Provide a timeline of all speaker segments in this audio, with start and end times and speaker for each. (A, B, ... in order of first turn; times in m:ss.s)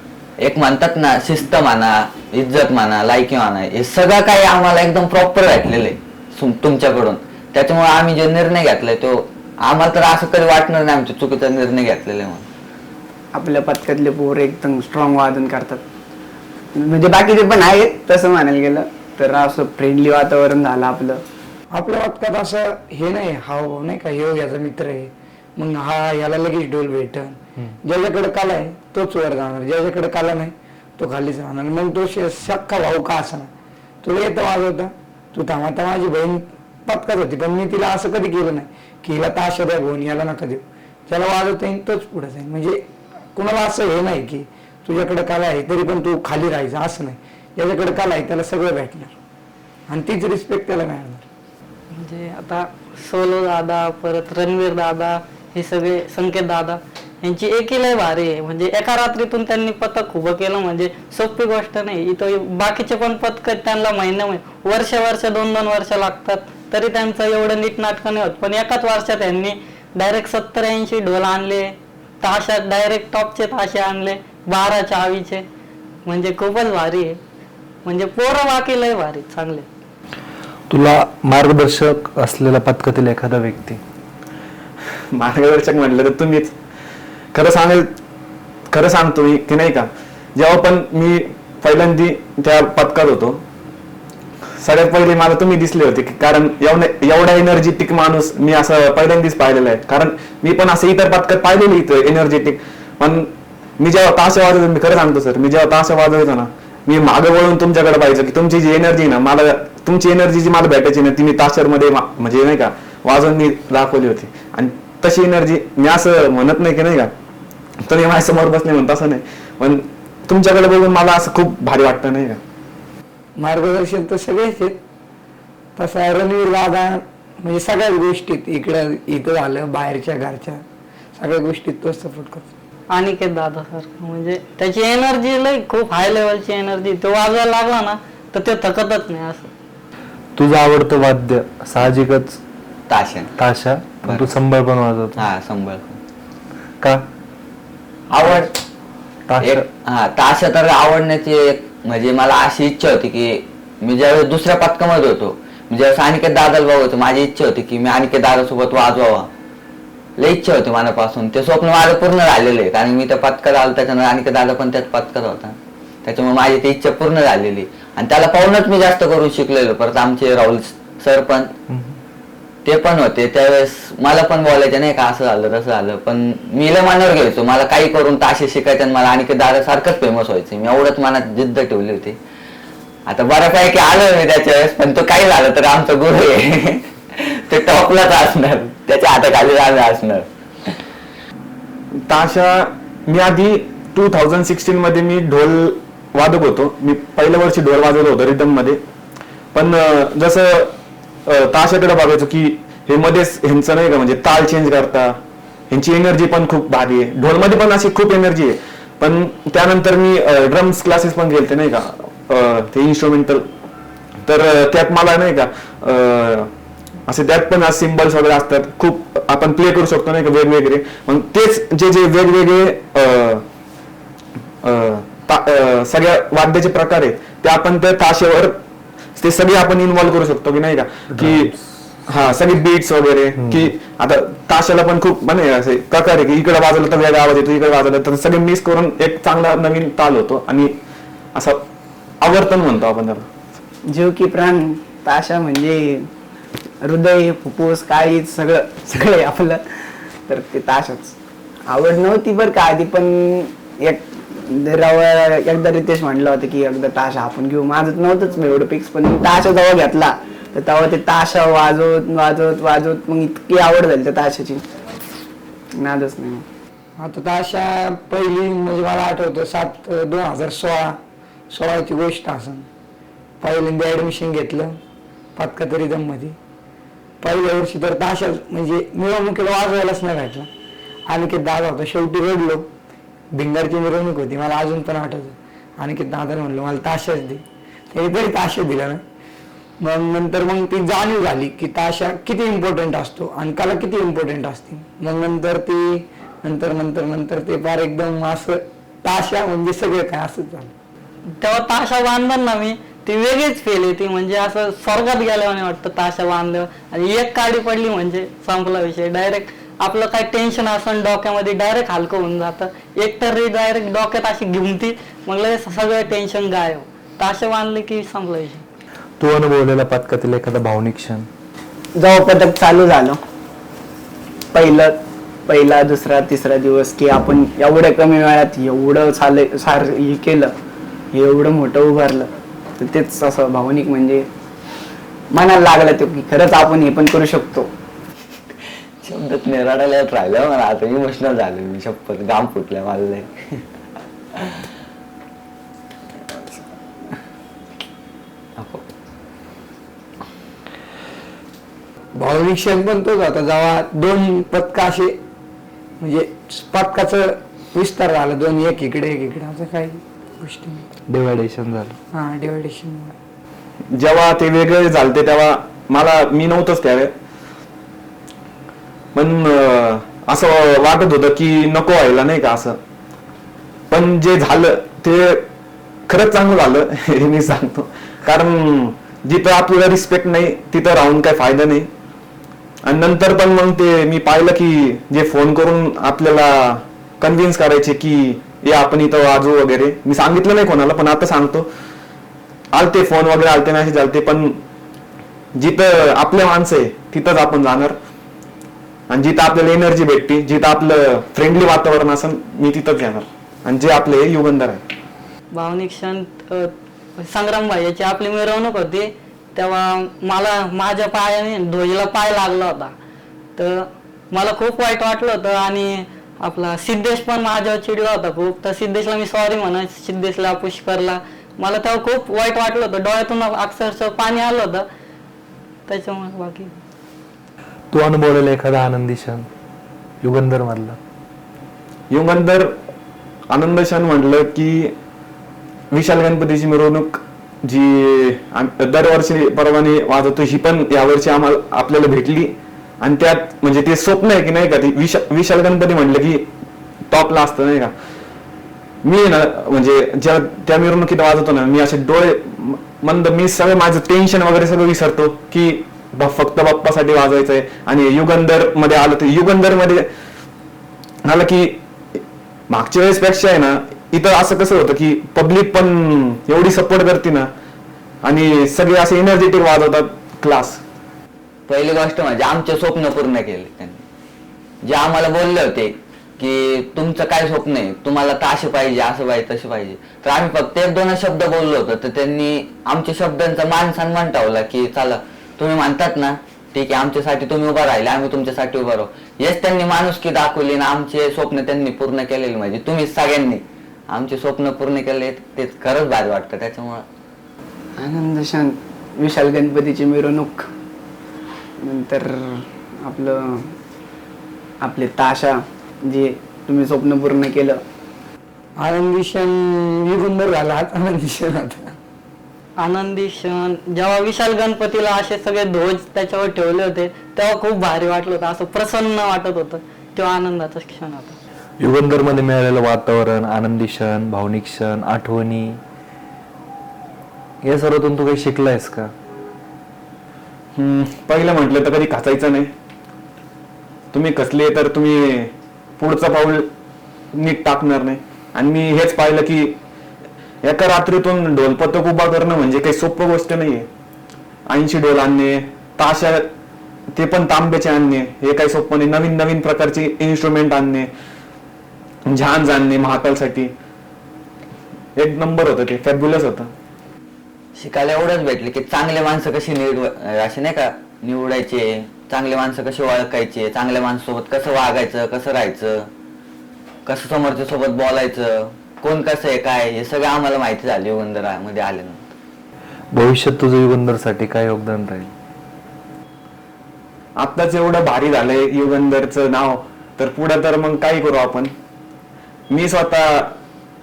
0:00.4-0:12.4 A
0:13.3-0:15.8 B
0:16.7-0:21.2 B
0:21.7-0:25.0 C
0:25.6-0:33.5 C
0:34.0-0:42.7 C
0:43.4-0:49.1 C
0:49.9-0:51.2 C
0:52.0-1:15.4 D
1:16.0-1:17.2 D
1:17.8-1:19.6 D
1:20.7-1:23.8 E
1:25.1-1:26.5 F
1:27.3-1:27.9 F
1:28.7-1:33.4 F
1:34.6-1:57.1 F
1:57.8-2:02.4 F
2:03.4-2:04.7 C
2:05.8-2:07.0 C
2:07.5-2:10.6 C
2:11.2-2:12.4 C
2:12.9-2:19.5 D
2:20.4-2:22.4 E
2:22.9-2:23.3 A
2:23.4-2:25.2 E
2:25.2-2:26.0 A
2:28.1-2:28.5 A
2:29.3-2:29.6 E
2:29.4-2:39.3 A
2:40.2-2:51.5 A
2:51.7-2:52.0 E
2:52.6-3:02.2 A
3:03.1-3:10.3 A
3:12.1-3:18.8 F
3:19.5-3:20.7 F
3:21.2-3:33.5 F
3:34.2-3:36.5 F
3:37.1-3:43.4 F
3:44.6-3:48.6 F
3:49.2-3:51.5 F
3:51.1-3:51.5 E
3:52.1-4:00.8 F
3:53.4-3:53.7 E
4:01.3-4:01.6 F
4:02.2-4:03.3 F
4:03.9-4:06.1 B
4:06.8-4:09.6 B
4:10.3-4:11.2 B
4:11.7-4:24.6 B
4:25.7-4:26.4 B
4:27.0-4:27.6 C
4:28.1-4:30.8 C
4:31.6-4:32.6 C
4:33.4-4:34.6 C
4:35.4-4:36.3 C
4:37.2-4:40.5 C
4:41.1-4:42.6 C
4:43.4-4:47.4 C
4:47.9-4:49.0 C
4:49.8-4:55.9 C
4:56.4-5:00.7 C
5:01.4-5:18.6 D
5:19.2-5:21.3 E
5:22.0-5:23.2 B
5:24.5-5:30.5 B
5:31.1-5:34.3 B
5:35.3-5:37.7 B
5:39.0-5:43.6 A
5:44.4-5:44.7 A
5:48.6-5:48.8 A
5:52.2-5:55.1 C
5:56.0-6:00.8 C
6:01.1-6:02.0 E
6:02.1-6:03.1 C
6:03.9-6:07.1 F
6:09.1-6:12.8 F
6:13.9-6:15.5 F
6:16.1-6:21.9 F
6:22.8-6:31.7 F
6:32.7-6:34.6 F
6:35.5-6:38.0 F
6:39.1-6:44.8 F
6:45.5-6:52.9 D
6:53.6-7:04.8 D
7:05.9-7:06.7 D
7:07.9-7:09.5 E
7:10.2-7:11.0 E
7:12.1-7:12.8 F
7:13.5-7:14.9 F
7:15.9-7:26.5 F
7:27.1-7:27.9 F
7:29.0-7:40.1 F
7:41.2-7:47.5 F
7:48.2-7:50.8 F
7:51.7-7:54.0 A
7:54.8-8:17.0 A
8:18.0-8:20.7 B
8:21.8-8:23.7 B
8:24.8-8:27.8 B
8:28.8-8:29.5 C
8:30.1-8:31.8 C
8:32.8-8:41.4 D
8:41.8-8:45.8 E
8:47.6-8:49.1 E
8:50.7-8:52.7 F
8:54.1-8:56.7 F
8:57.3-8:59.8 F
9:00.6-9:03.9 F
9:04.7-9:06.5 F
9:07.1-9:11.1 F
9:12.3-9:13.7 F
9:15.2-9:16.7 F
9:17.8-9:26.1 A
9:27.0-9:32.3 A
9:33.1-9:35.3 E
9:37.4-9:41.7 F
9:42.7-9:43.6 F